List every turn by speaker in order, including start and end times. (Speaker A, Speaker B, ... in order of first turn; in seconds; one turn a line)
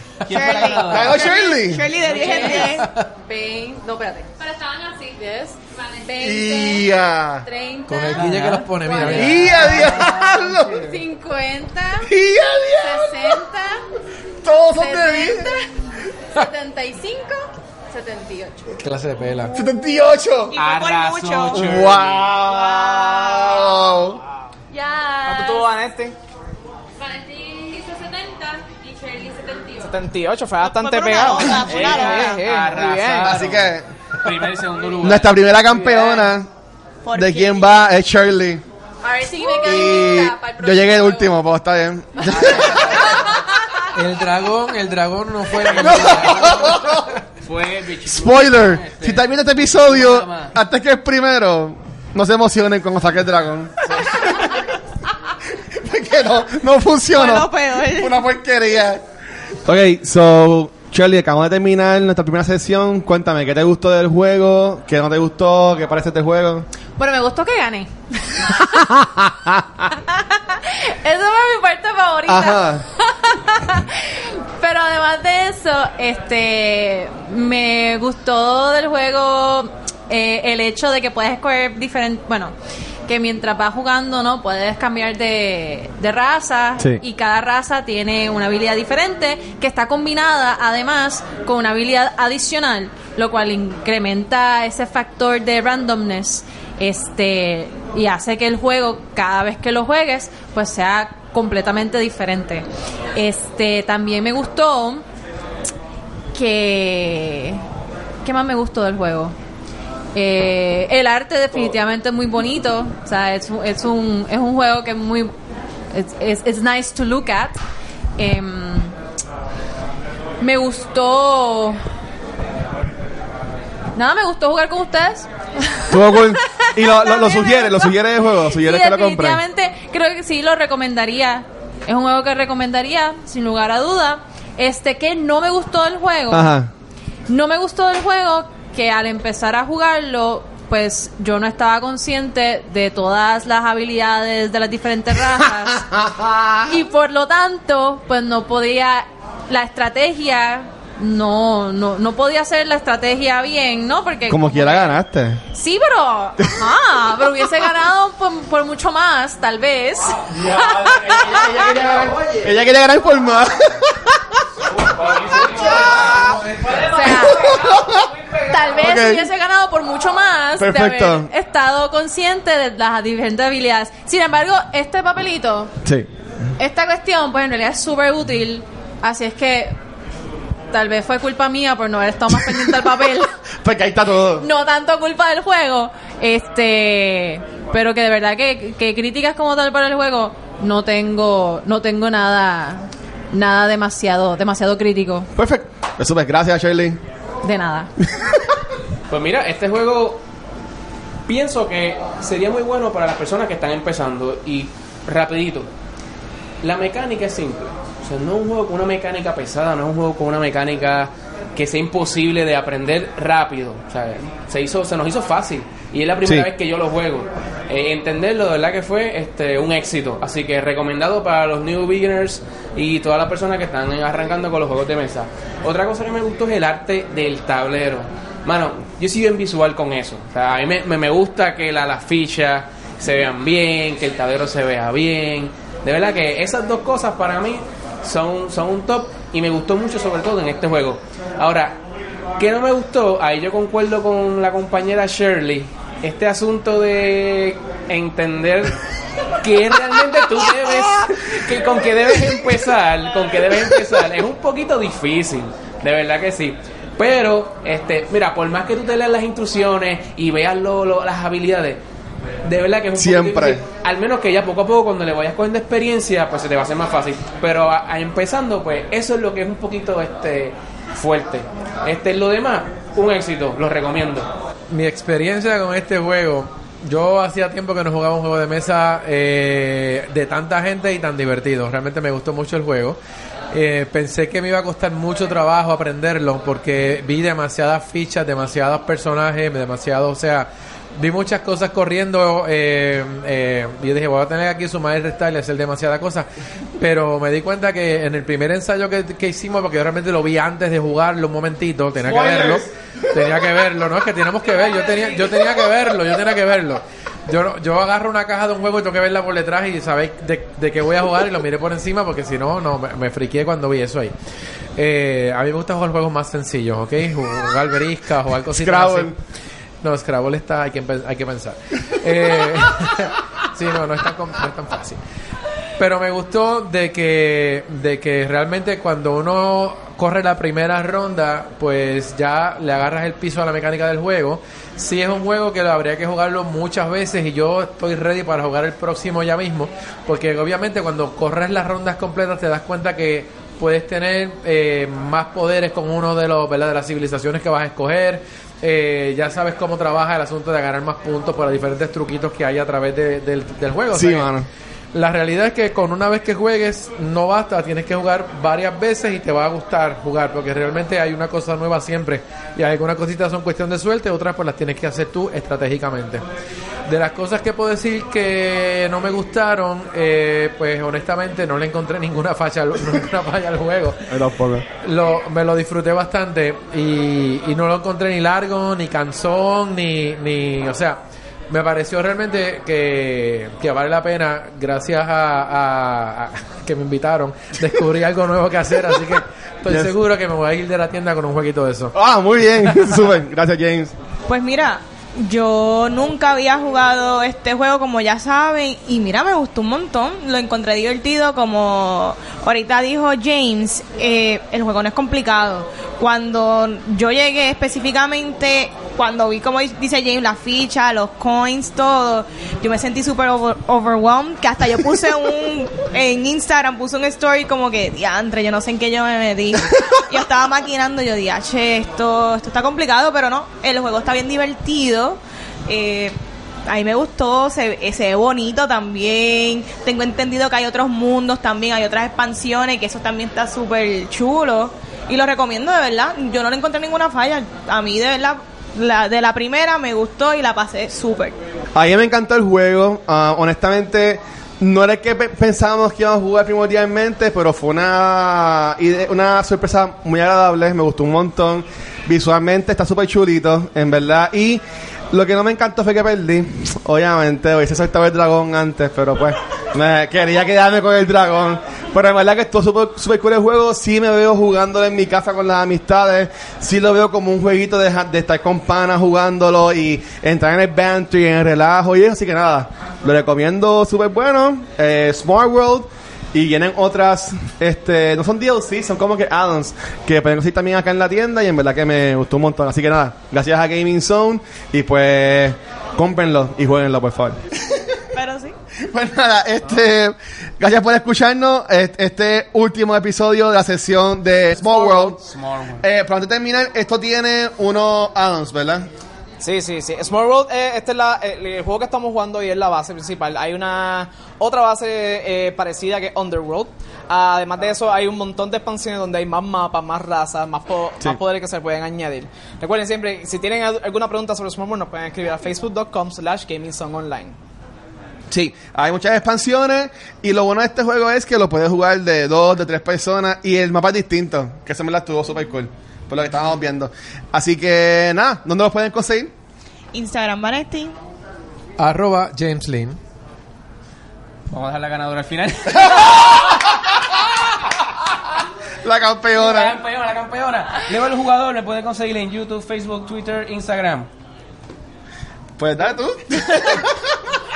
Speaker A: 0.3-1.4
Speaker B: 0.3-2.9
Speaker C: 0.5-1.9
Speaker A: 2.1-2.6
Speaker D: 2.1-6.9
Speaker E: 2.8-3.1
Speaker C: 6.2-7.5
Speaker D: 7.4-12.1
Speaker E: 7.9-9.7
Speaker A: 8.1-10.5
Speaker C: 9.0-11.0
Speaker C: 12.0-13.4
Speaker D: 12.8-13.8
Speaker C: 14.4-15.6
Speaker D: 14.7-18.8
Speaker E: 18.8-19.5
Speaker C: 19.5-20.6
Speaker B: 20.5-21.9
Speaker A: 20.6-22.3
Speaker C: 21.5-24.2
Speaker B: 22.4-23.9
Speaker D: 24.7-25.7
Speaker F: 25.3-26.2
Speaker D: 27.0-30.0
Speaker F: 29.8-33.4
Speaker B: 30.6-32.4
Speaker A: 31.7-35.5
Speaker C: 33.2-33.9
Speaker C: 35.0-36.5
Speaker F: 35.7-36.1
Speaker B: 37.0-37.9
Speaker C: 37.1-38.6
Speaker D: 39.0-41.4
Speaker C: 39.6-43.2
Speaker D: 42.2-43.8
Speaker A: 42.5-43.0
Speaker E: 43.9-47.2
Speaker A: 45.7-46.4
Speaker C: 45.7-47.1
Speaker A: 47.4-50.6
Speaker C: 48.1-54.7
Speaker C: 55.7-59.0
Speaker B: 57.1-58.2
Speaker C: 59.6-66.7
Speaker D: 67.0-68.9
Speaker C: 69.0-69.6
Speaker D: 70.2-82.5
Speaker C: 72.3-72.8
Speaker D: 83.1-105.0
Speaker D: 106.3-107.6
Speaker D: 108.2-109.4
Speaker D: 110.1-115.3
Speaker D: 115.9-117.6
Speaker D: 118.2-119.0
Speaker D: 120.4-121.8
Speaker D: 124.0-127.9
Speaker C: 125.9-129.4
Speaker D: 128.5-136.5
Speaker C: 136.3-136.7
Speaker D: 137.3-145.9
Speaker C: 145.9-146.7
Speaker D: 146.7-155.0
Speaker C: 154.3-155.4
Speaker D: 155.5-161.8
Speaker C: 160.5-160.7
Speaker A: 160.9-162.2
Speaker C: 161.3-164.2
Speaker A: 164.7-166.4
Speaker C: 165.1-166.4
Speaker D: 166.8-167.6
Speaker C: 167.0-168.1
Speaker D: 168.4-175.8
Speaker C: 168.8-169.3
Speaker C: 170.6-171.3
Speaker D: 176.6-179.8
Speaker D: 180.7-183.3
Speaker C: 183.6-184.5
Speaker D: 184.4-195.3
Speaker C: 195.3-197.0
Speaker D: 197.4-197.9
Speaker A: 199.1-200.2
Speaker A: 201.3-205.7
Speaker A: 206.6-241.8
Speaker A: 242.4-248.8
Speaker A: 249.4-261.8
Speaker A: 262.4-274.3
Speaker C: 263.0-263.6
Speaker E: 274.7-283.0
Speaker E: 283.5-314.1
Speaker C: 302.0-302.6
Speaker E: 314.8-319.1
Speaker C: 318.5-319.2
Speaker E: 319.8-325.0
Speaker E: 325.8-354.3
Speaker C: 353.9-354.5
Speaker E: 354.9-366.2
Speaker E: 366.9-374.2
Speaker C: 374.1-374.7
Speaker E: 374.7-391.9
Speaker C: 391.9-393.9
Speaker E: 392.7-392.9
Speaker B: 394.3-426.2
Speaker B: 426.7-441.4
Speaker C: 441.8-487.8
Speaker B: 488.1-488.6
Speaker C: 488.9-495.2
Speaker A: 494.6-495.9
Speaker C: 495.8-498.9
Speaker F: 499.4-517.4
Speaker C: 518.3-529.3
Speaker B: 529.9-531.0
Speaker E: 531.8-533.0
Speaker A: 534.5-536.8
Speaker C: 538.8-539.8
Speaker A: 539.3-544.1
Speaker C: 545.6-547.0